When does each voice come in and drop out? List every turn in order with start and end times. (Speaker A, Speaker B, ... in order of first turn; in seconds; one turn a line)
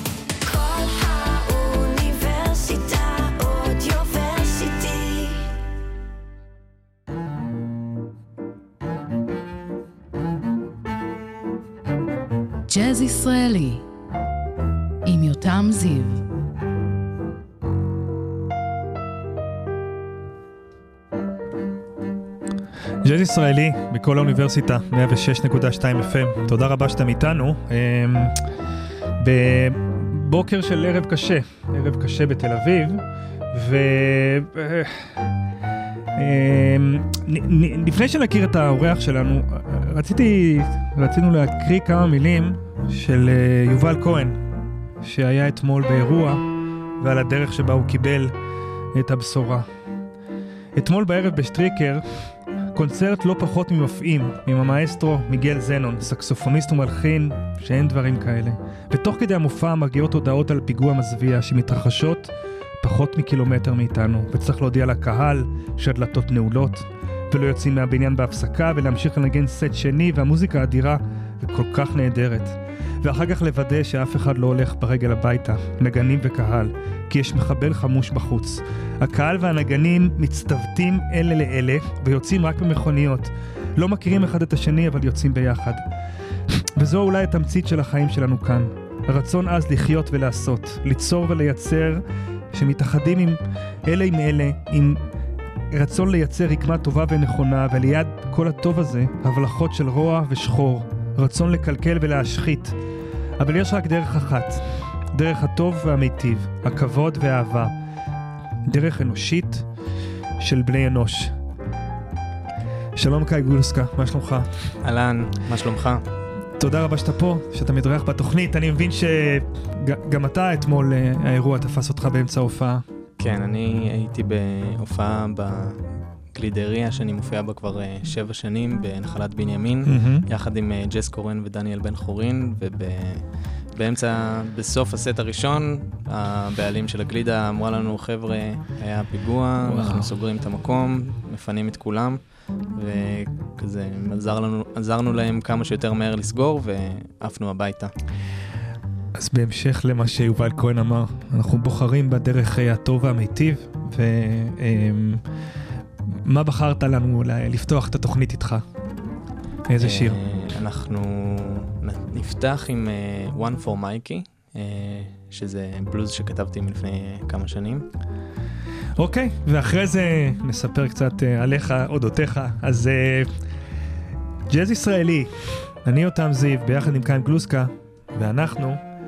Speaker A: 0.4-5.5
Speaker B: 12.7-13.8
Speaker B: 15.0-16.3
Speaker C: 23.0-28.4
Speaker C: 29.2-35.3
Speaker C: 36.1-44.4
Speaker C: 45.0-46.4
Speaker C: 47.0-48.3
Speaker C: 48.9-49.7
Speaker C: 50.8-52.0
Speaker C: 52.8-85.8
Speaker C: 86.5-95.0
Speaker C: 95.7-102.8
Speaker C: 103.4-107.7
Speaker C: 108.7-109.7
Speaker C: 110.4-111.3
Speaker C: 113.0-114.5
Speaker D: 114.8-116.0
Speaker C: 116.6-122.8
Speaker D: 123.2-142.2
Speaker C: 129.9-130.3
Speaker C: 139.6-140.1
Speaker D: 142.7-147.9
Speaker C: 149.2-155.2
Speaker C: 156.1-158.6
Speaker C: 159.7-160.2
Speaker D: 159.8-167.9
Speaker C: 169.0-173.3
Speaker C: 174.5-178.8